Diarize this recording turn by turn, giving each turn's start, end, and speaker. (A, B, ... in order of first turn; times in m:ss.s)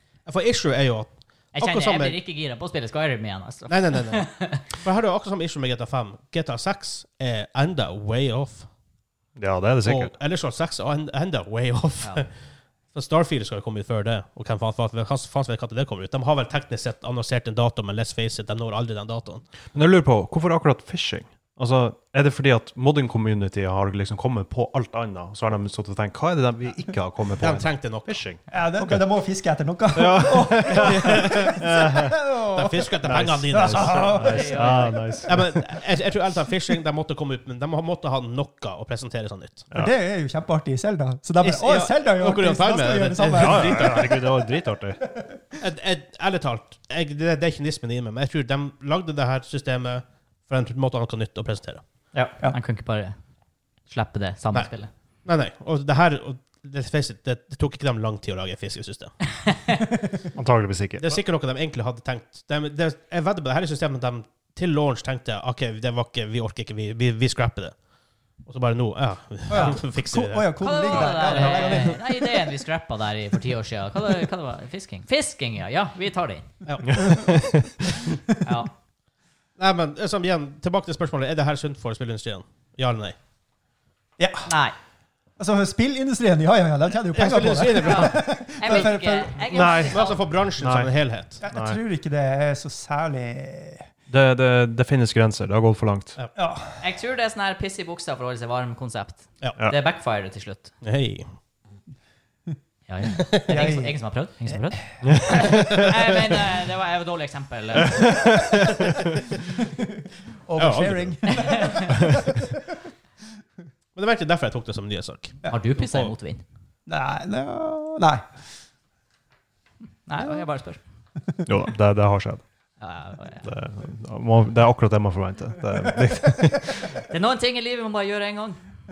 0:00.3-0:02.2 A
0:01.6-0:04.7 B
0:03.7-0:08.7 A
0:09.4-0:10.1 C
0:09.8-0:12.3 A
0:12.9-0:19.4 A
0:19.7-0:29.1 C
0:27.4-0:28.2 A
0:28.5-0:35.4 D
0:29.9-0:32.2 C
0:30.8-0:31.6 A
0:32.5-0:34.3 A
0:33.0-0:35.6 C
0:34.3-0:35.1 B
0:35.3-0:39.7 A
0:39.8-0:44.2 D
0:41.4-0:44.2 A
0:43.4-0:45.0 C
0:45.6-0:51.8 A
0:52.1-0:53.2 B
0:53.9-0:54.9 B
0:55.2-0:59.2 A
0:59.5-0:59.8 B
1:00.4-1:01.2 C
1:01.0-1:07.8 A
1:08.4-1:12.0 A
1:09.5-1:12.1 D
1:10.6-1:16.5 B
1:16.6-1:17.3 A
1:16.9-1:17.5 D
1:17.0-1:17.6 C
1:18.4-1:18.7 B
1:19.6-1:23.2 A
1:24.2-1:24.5 D
1:24.5-1:24.8 B
1:25.4-1:29.4 D
1:27.1-1:28.9 A
1:27.8-1:30.3 B
1:29.5-1:30.0 C
1:29.6-1:31.4 A
1:30.6-1:30.9 C
1:31.4-1:33.9 D
1:31.4-1:31.8 C
1:34.1-1:36.2 C
1:36.4-1:36.8 D
1:36.8-1:40.7 B
1:40.8-1:41.3 A
1:42.9-1:48.2 B
1:43.5-1:44.0 D
1:45.2-1:45.5 C
1:47.8-1:49.1 C
1:50.5-1:52.5 D
1:50.6-1:51.4 A
1:51.3-1:51.9 B
1:54.0-1:56.1 A
1:55.5-1:56.4 B
1:56.9-1:58.3 D
2:00.1-2:00.8 B
2:01.5-2:02.5 C
2:02.8-2:03.5 B
2:03.4-2:06.8 C
2:07.1-2:08.6 B